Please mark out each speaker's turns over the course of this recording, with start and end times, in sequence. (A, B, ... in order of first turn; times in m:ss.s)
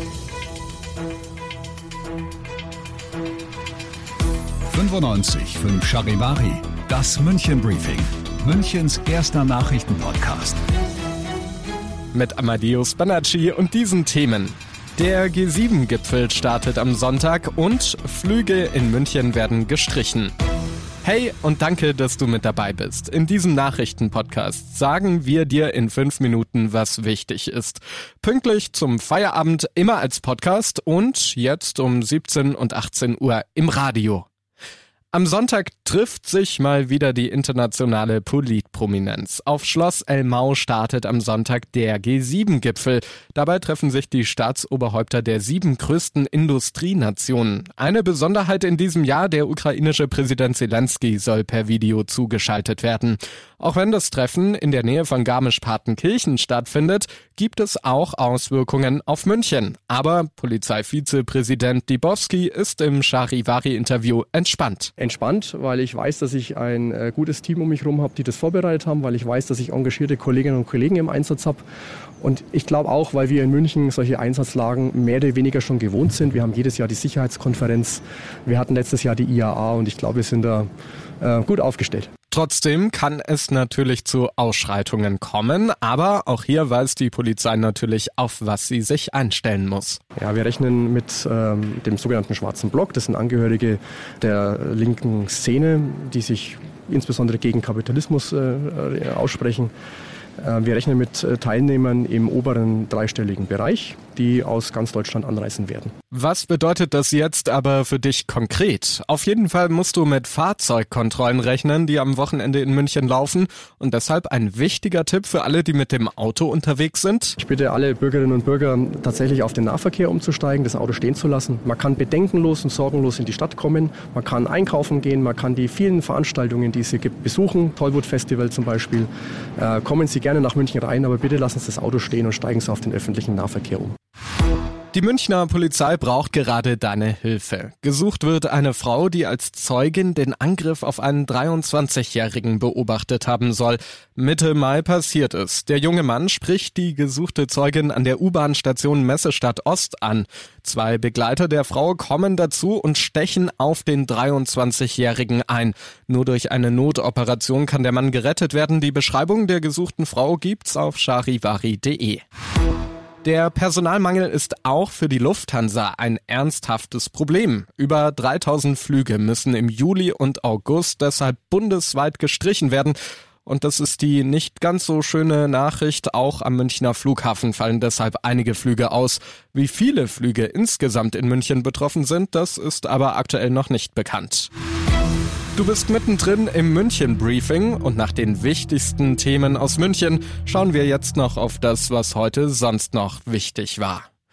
0:04.7-0:10.6 A
0:12.1-0:20.3 B
0:21.0-0:34.3 B
0:35.1-1:04.9 B
1:05.0-1:11.6 C
1:12.2-1:20.7 C
1:21.2-1:22.1 C
1:22.3-1:30.0 B
1:30.2-1:39.7 C
1:40.4-1:45.9 C
1:46.1-1:57.4 B
1:57.4-2:13.9 C
2:14.9-2:42.2 B
2:43.2-3:04.5 B
3:05.6-3:14.1 B